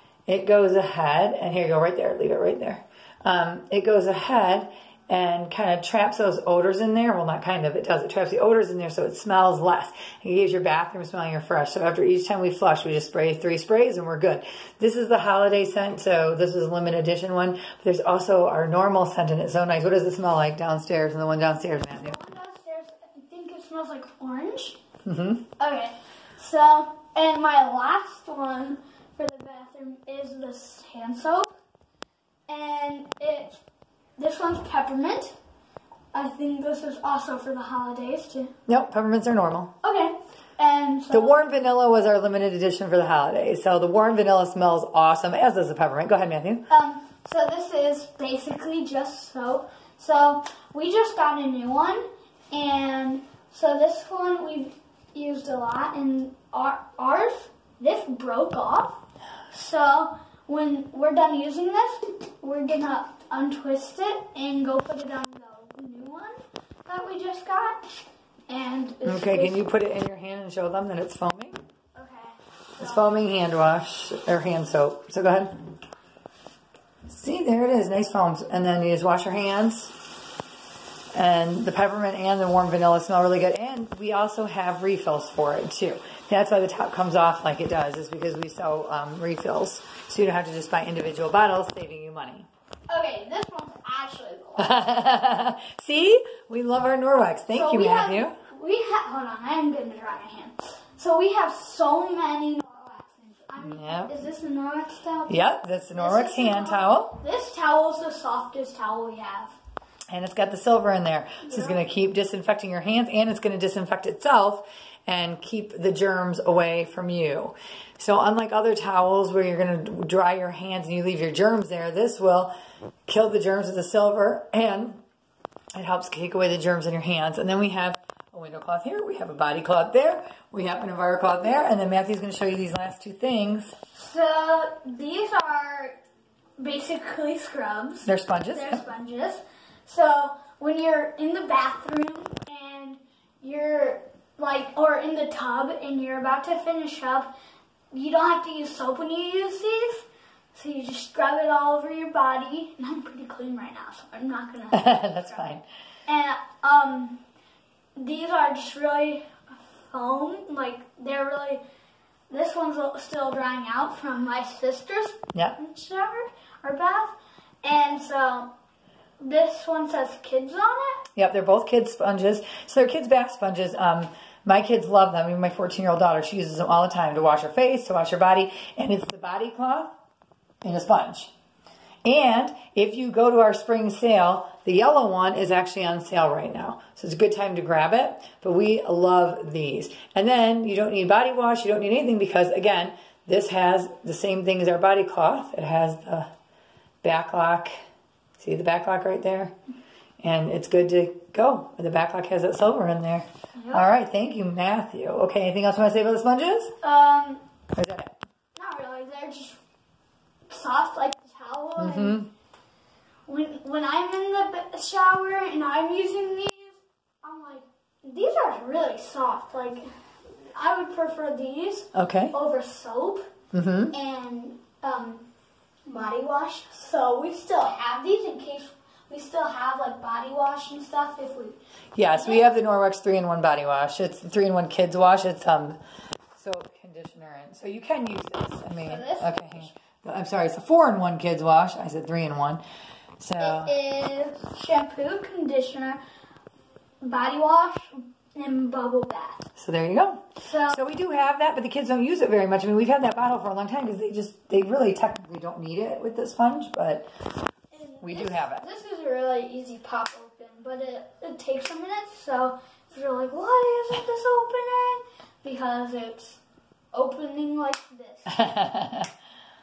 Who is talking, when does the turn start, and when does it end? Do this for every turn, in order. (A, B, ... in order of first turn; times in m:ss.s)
0:00.3-0:22.2 A
0:21.9-0:24.8 B
0:25.0-0:25.4 A
0:25.6-0:31.5 B
0:32.5-0:33.6 B
0:34.2-0:35.3 B
0:36.1-0:38.5 B
0:38.7-0:39.7 A
0:39.8-0:41.4 B
0:41.1-0:46.6 A
0:46.7-0:59.0 B
0:59.5-1:07.8 B
1:08.5-1:09.6 B
1:09.0-1:11.6 A
1:11.9-1:13.2 B
1:12.8-1:15.6 A
1:17.1-1:19.9 A
1:21.1-1:32.5 A
1:32.9-1:34.8 B
1:34.6-1:38.3 A
1:37.5-1:45.4 B
1:43.6-1:44.1 A
1:45.3-1:47.2 A
1:46.0-1:49.6 B
1:50.1-2:02.5 A
1:51.4-1:51.8 B
2:03.1-2:05.0 A
2:05.8-2:13.8 A
2:13.9-2:16.0 B
2:16.6-2:27.3 B
2:18.1-2:18.8 A
2:27.9-2:35.5 B
2:34.7-2:35.6 A
2:36.1-2:37.2 B
2:38.0-2:41.6 B
2:42.3-2:48.5 B
2:49.2-2:51.0 B
2:51.2-2:59.9 A
3:00.6-3:01.3 A
3:02.0-3:16.3 A
3:17.0-3:17.7 A
3:18.4-3:19.5 A
3:20.2-3:26.8 A
3:23.6-3:23.9 B
3:26.8-3:27.4 B
3:27.8-3:28.2 A
3:28.6-3:29.6 B
3:30.5-3:32.2 B
3:31.8-3:32.3 A
3:33.3-3:39.8 B
3:40.4-3:43.3 B
3:41.9-3:42.3 A
3:43.5-3:43.9 A
3:43.9-3:45.2 B
3:45.9-3:51.6 B
3:52.0-3:55.8 A
3:52.1-3:52.4 B
3:56.4-4:02.6 A
3:58.8-3:59.7 B
4:03.2-4:03.7 A
4:03.4-4:06.0 B
4:07.0-4:09.4 B
4:09.6-4:17.1 A
4:10.4-4:10.8 B
4:17.7-4:26.4 B
4:18.0-4:18.6 A
4:26.9-4:28.4 B
4:28.3-4:29.1 A